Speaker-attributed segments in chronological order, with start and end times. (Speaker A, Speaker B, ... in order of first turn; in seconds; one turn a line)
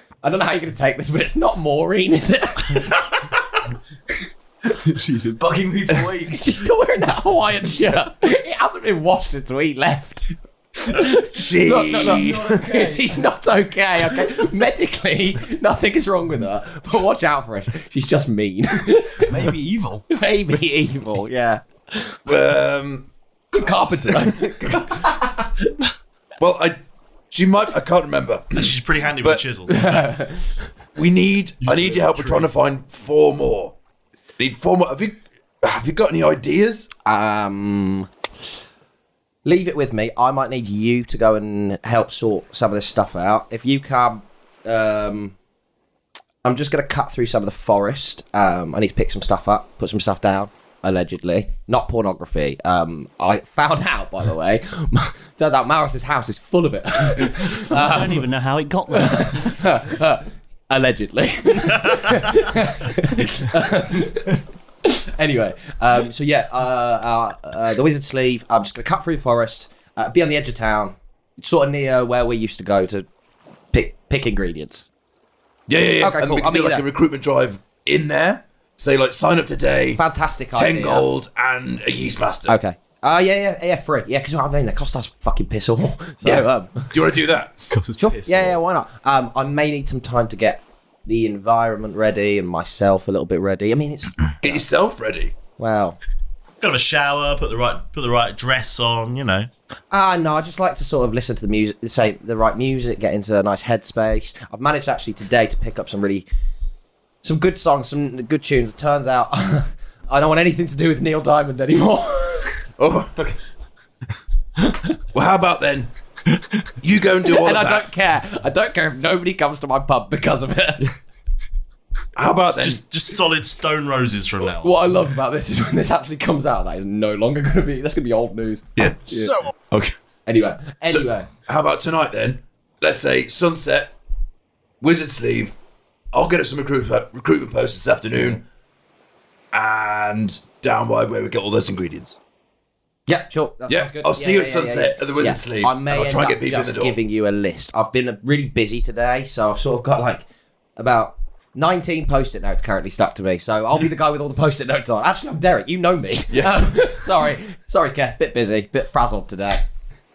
Speaker A: 0.2-3.0
Speaker B: 4.7-6.6
Speaker A: 6.3-10.3
Speaker A: 10.9-19.4
Speaker C: 11.2-12.6
Speaker B: 11.7-13.2
Speaker B: 19.2-20.1
Speaker A: 20.1-22.2
Speaker C: 22.3-23.1
Speaker A: 23.5-25.1
Speaker C: 23.7-25.1
Speaker C: 26.4-26.8
Speaker C: 27.3-29.4
Speaker D: 28.5-30.1
Speaker A: 29.7-30.7
Speaker C: 30.9-33.8
Speaker B: 31.6-32.5
Speaker C: 34.4-36.9
Speaker A: 37.0-38.1
Speaker A: 39.5-45.4
Speaker A: 46.4-58.2
Speaker E: 57.5-59.7
Speaker A: 58.9-73.1
Speaker A: 73.7-74.9
Speaker C: 75.7-82.5
Speaker A: 76.0-76.8
Speaker A: 80.0-81.1
Speaker A: 82.5-86.9
Speaker C: 86.2-87.6
Speaker B: 87.7-88.6
Speaker A: 88.0-94.7
Speaker C: 94.4-95.3
Speaker A: 95.6-96.0
Speaker D: 96.6-99.5
Speaker A: 99.9-106.3
Speaker A: 107.2-112.6
Speaker C: 112.8-113.4
Speaker C: 115.1-115.9
Speaker B: 116.3-116.7
Speaker C: 116.8-117.9
Speaker A: 117.2-120.9
Speaker C: 122.2-122.9
Speaker D: 122.5-124.7
Speaker A: 124.5-129.3
Speaker A: 130.3-131.3
Speaker C: 130.9-133.9
Speaker C: 134.8-135.6
Speaker C: 136.1-138.4
Speaker C: 139.5-142.2
Speaker A: 143.1-150.3
Speaker C: 143.7-147.0
Speaker A: 150.8-159.7
Speaker C: 156.3-156.9